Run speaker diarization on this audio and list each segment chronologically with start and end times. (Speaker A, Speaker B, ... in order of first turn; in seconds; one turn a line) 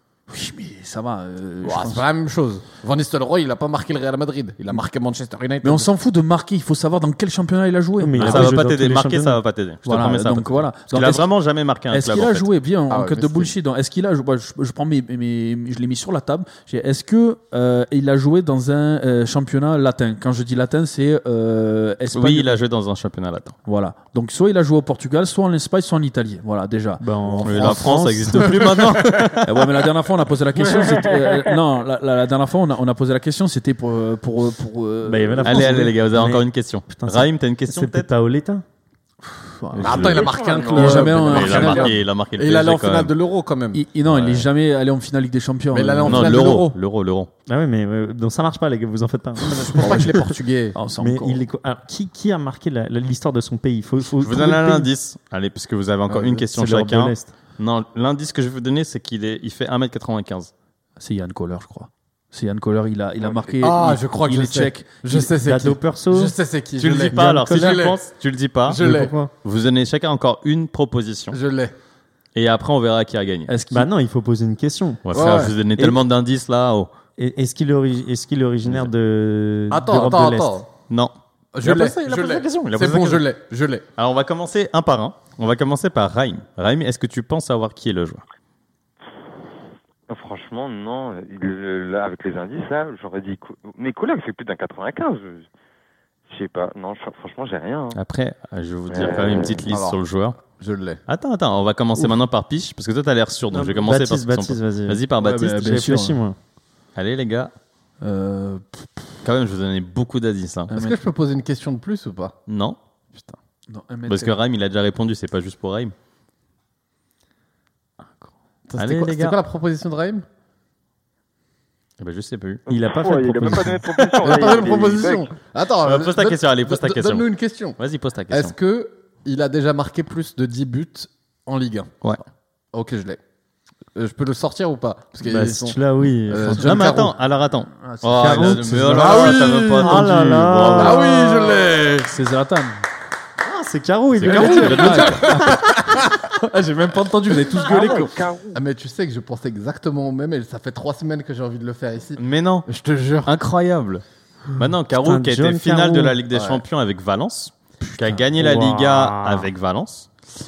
Speaker A: 0.3-2.1
Speaker B: 1.6-5.9
Speaker A: 5.6-8.6
Speaker C: 8.0-9.4
Speaker D: 8.2-12.5
Speaker A: 9.8-11.3
Speaker A: 11.9-22.5
Speaker B: 12.9-13.5
Speaker D: 22.1-23.6
Speaker A: 23.6-27.9
Speaker C: 27.0-29.2
Speaker D: 27.4-29.4
Speaker B: 28.3-29.4
Speaker A: 29.4-35.9
Speaker E: 30.8-31.4
Speaker C: 35.0-38.6
Speaker D: 35.4-38.1
Speaker A: 39.3-42.0
Speaker D: 39.8-40.3
Speaker B: 39.8-43.9
Speaker E: 40.2-41.5
Speaker D: 40.9-43.1
Speaker A: 43.7-46.7
Speaker D: 44.1-44.5
Speaker B: 45.7-46.8
Speaker D: 46.0-47.3
Speaker C: 47.5-50.2
Speaker B: 49.5-50.8
Speaker A: 49.6-50.2
Speaker A: 50.7-51.4
Speaker C: 51.0-54.9
Speaker D: 54.2-60.5
Speaker B: 56.1-56.4
Speaker C: 56.6-57.3
Speaker A: 61.0-65.3
Speaker B: 63.6-68.0
Speaker C: 65.4-66.3
Speaker D: 66.8-68.8
Speaker C: 67.2-67.8
Speaker B: 68.7-69.1
Speaker C: 68.8-69.3
Speaker D: 69.4-71.4
Speaker B: 71.3-71.8
Speaker D: 72.3-73.5
Speaker A: 73.5-73.9
Speaker C: 73.7-75.0
Speaker D: 75.0-76.9
Speaker B: 75.1-75.6
Speaker C: 77.2-80.5
Speaker B: 79.7-80.7
Speaker D: 80.9-83.2
Speaker B: 81.5-83.8
Speaker D: 84.0-88.2
Speaker E: 90.1-95.5
Speaker E: 96.3-98.0
Speaker D: 98.0-100.4
Speaker B: 98.9-101.0
Speaker E: 99.0-99.6
Speaker D: 101.1-105.8
Speaker C: 103.5-106.4
Speaker A: 105.2-106.2
Speaker D: 107.0-107.5
Speaker A: 108.0-108.9
Speaker D: 109.2-110.7
Speaker A: 110.7-111.0
Speaker B: 110.7-112.4
Speaker D: 112.5-112.8
Speaker B: 113.1-113.4
Speaker A: 113.7-114.4
Speaker D: 114.1-115.9
Speaker B: 118.7-120.2
Speaker D: 118.8-119.4
Speaker D: 122.0-122.6
Speaker C: 122.7-124.6
Speaker E: 122.7-125.3
Speaker B: 124.2-127.8
Speaker D: 125.8-128.5
Speaker B: 128.3-132.1
Speaker B: 132.7-133.2
Speaker B: 133.9-137.2
Speaker C: 135.2-137.1
Speaker D: 136.5-141.1
Speaker A: 137.8-139.4
Speaker C: 138.2-141.1
Speaker B: 138.9-140.0
Speaker B: 140.7-142.2
Speaker A: 142.1-142.8
Speaker C: 143.4-145.7
Speaker D: 144.2-145.2
Speaker B: 144.3-146.4
Speaker A: 144.3-145.7
Speaker A: 146.3-148.2
Speaker E: 147.6-148.6
Speaker B: 148.5-153.3
Speaker D: 152.2-152.7
Speaker D: 153.2-160.3
Speaker C: 154.9-156.2
Speaker B: 156.3-156.6
Speaker C: 157.9-159.5